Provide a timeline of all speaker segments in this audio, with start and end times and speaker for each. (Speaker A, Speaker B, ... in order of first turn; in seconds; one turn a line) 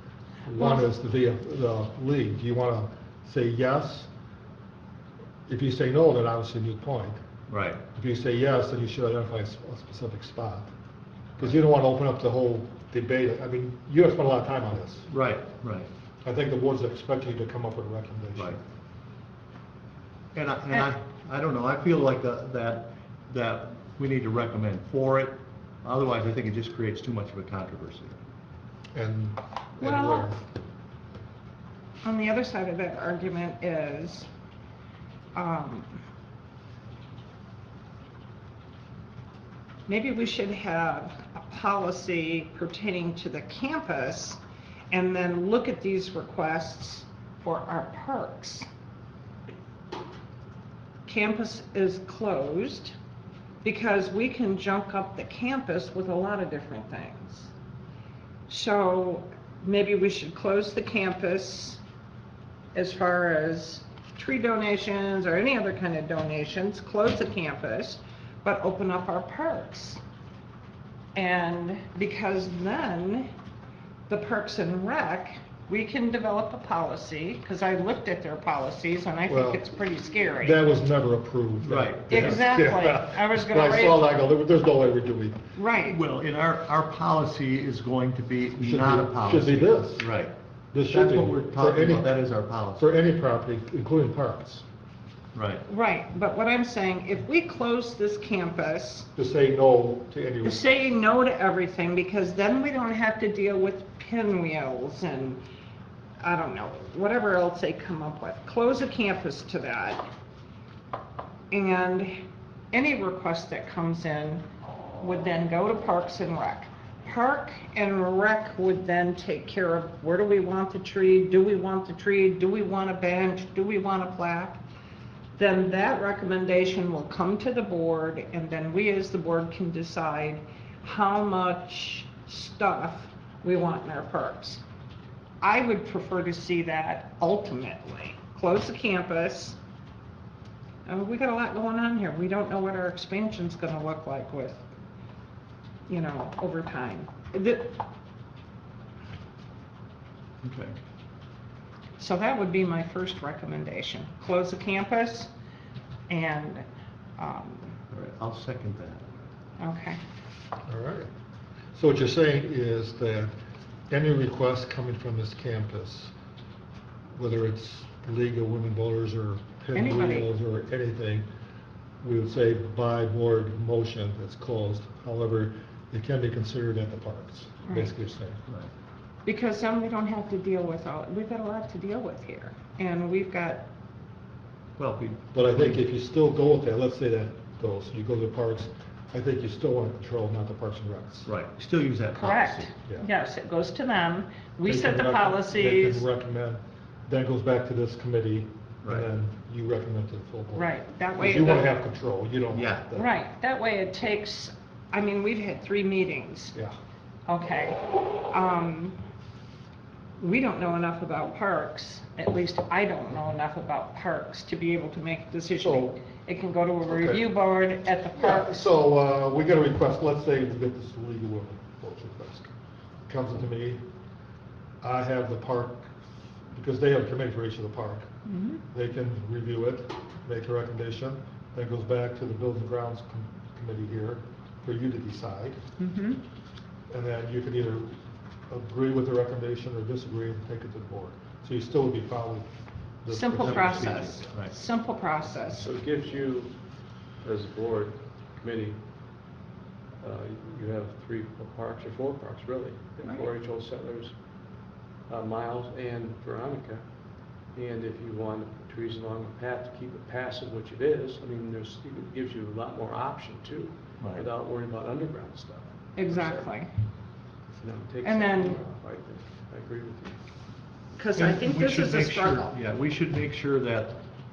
Speaker A: 0.5-4.1
Speaker B: 0.6-0.8
Speaker A: 5.5-7.2
Speaker C: 7.5-7.8
Speaker A: 8.0-10.7
Speaker A: 11.4-15.1
Speaker C: 15.1-15.9
Speaker A: 16.2-18.6
Speaker C: 20.3-28.2
Speaker A: 28.9-30.4
Speaker B: 29.8-30.3
Speaker B: 32.0-34.3
Speaker B: 35.4-36.0
Speaker B: 39.9-44.4
Speaker B: 44.9-48.7
Speaker B: 51.1-53.0
Speaker B: 53.6-57.5
Speaker B: 58.5-61.8
Speaker B: 62.7-70.0
Speaker B: 71.2-73.3
Speaker B: 74.1-80.6
Speaker A: 79.3-79.6
Speaker A: 80.4-85.4
Speaker C: 81.6-82.5
Speaker B: 82.1-84.0
Speaker B: 85.6-86.0
Speaker C: 85.8-90.3
Speaker A: 88.6-90.1
Speaker A: 90.7-92.1
Speaker C: 90.8-92.9
Speaker A: 92.8-94.6
Speaker C: 95.3-95.7
Speaker B: 95.7-99.1
Speaker A: 99.2-100.6
Speaker B: 100.4-105.4
Speaker B: 106.2-110.1
Speaker B: 111.5-112.2
Speaker B: 112.7-114.5
Speaker B: 115.0-124.6
Speaker B: 125.4-134.6
Speaker B: 135.4-139.6
Speaker B: 140.9-144.6
Speaker B: 145.9-147.8
Speaker C: 150.4-150.8
Speaker B: 152.0-155.3
Speaker B: 156.1-156.7
Speaker B: 157.2-157.8
Speaker C: 157.9-159.1
Speaker B: 159.6-160.0
Speaker A: 160.7-161.1
Speaker A: 161.7-163.3
Speaker A: 163.9-166.1
Speaker A: 167.2-171.3
Speaker B: 169.7-170.3
Speaker A: 172.0-178.4
Speaker B: 177.7-177.9
Speaker B: 179.2-183.7
Speaker C: 184.8-185.8
Speaker A: 185.3-191.3
Speaker C: 191.2-192.7
Speaker B: 192.2-196.1
Speaker A: 194.7-203.1
Speaker B: 200.5-201.7
Speaker C: 202.5-202.8
Speaker B: 203.0-206.5
Speaker B: 207.3-209.0
Speaker B: 210.2-218.6
Speaker A: 215.6-215.9
Speaker A: 216.9-217.2
Speaker A: 218.2-222.5
Speaker A: 223.1-223.8
Speaker A: 224.8-225.9
Speaker A: 226.5-228.1
Speaker B: 228.3-228.6
Speaker A: 228.7-235.6
Speaker B: 235.8-236.2
Speaker A: 236.9-237.9
Speaker A: 238.5-242.5
Speaker A: 243.0-244.2
Speaker B: 243.1-245.7
Speaker C: 243.4-244.5
Speaker D: 245.6-248.8
Speaker D: 250.0-266.6
Speaker C: 264.0-264.3
Speaker B: 266.0-266.7
Speaker D: 267.5-270.2
Speaker B: 268.0-268.6
Speaker B: 270.9-272.5
Speaker C: 271.2-274.0